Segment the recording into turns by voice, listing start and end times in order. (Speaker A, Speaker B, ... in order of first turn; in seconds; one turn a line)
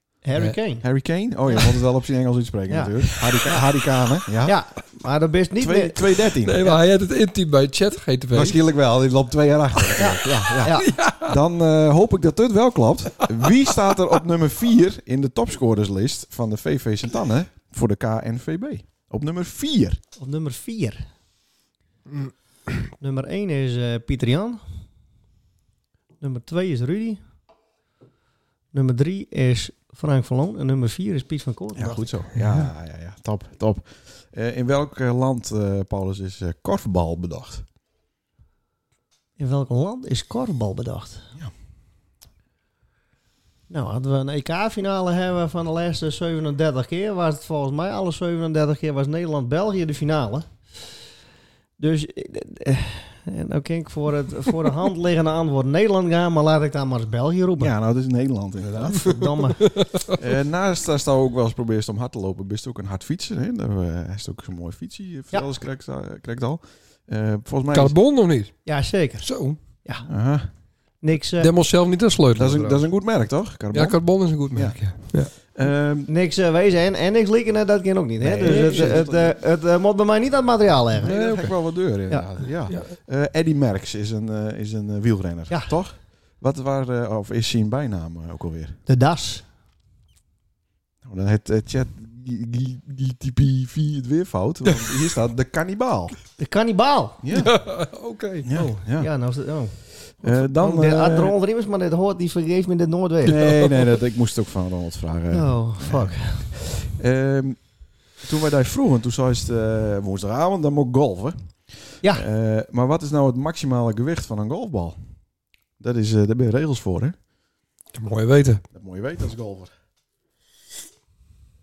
Speaker A: 0.2-0.8
Speaker B: 0.8-4.6
Speaker A: 2.7-3.6
Speaker A: 4.4-6.0
Speaker B: 5.6-6.6
Speaker C: 6.4-8.6
Speaker B: 8.3-20.0
Speaker A: 10.0-10.9
Speaker C: 10.8-11.4
Speaker A: 20.2-21.1
Speaker A: 23.0-24.6
Speaker A: 26.2-27.2
Speaker A: 28.7-32.2
Speaker B: 31.8-37.6
Speaker C: 32.3-32.7
Speaker A: 39.4-41.3
Speaker A: 43.7-50.5
Speaker A: 51.8-57.7
Speaker B: 57.6-59.4
Speaker A: 58.7-59.7
Speaker C: 59.6-60.2
Speaker B: 60.1-68.0
Speaker C: 67.7-68.7
Speaker A: 68.6-69.3
Speaker C: 69.2-69.6
Speaker B: 70.0-70.5
Speaker A: 71.0-71.5
Speaker C: 71.4-72.8
Speaker B: 72.3-76.1
Speaker C: 73.7-75.3
Speaker A: 76.1-81.2
Speaker B: 78.2-79.4
Speaker B: 81.0-88.8
Speaker C: 81.0-81.5
Speaker A: 82.1-82.4
Speaker C: 82.7-83.0
Speaker A: 85.5-85.7
Speaker A: 88.9-89.4
Speaker B: 91.0-96.2
Speaker A: 96.4-97.2
Speaker B: 97.2-97.7
Speaker C: 97.3-98.5
Speaker B: 98.4-99.1
Speaker A: 98.5-103.4
Speaker B: 100.2-101.3
Speaker B: 103.2-115.0
Speaker C: 103.3-103.7
Speaker A: 105.3-106.5
Speaker B: 115.8-117.2
Speaker C: 117.9-118.6
Speaker B: 118.7-119.7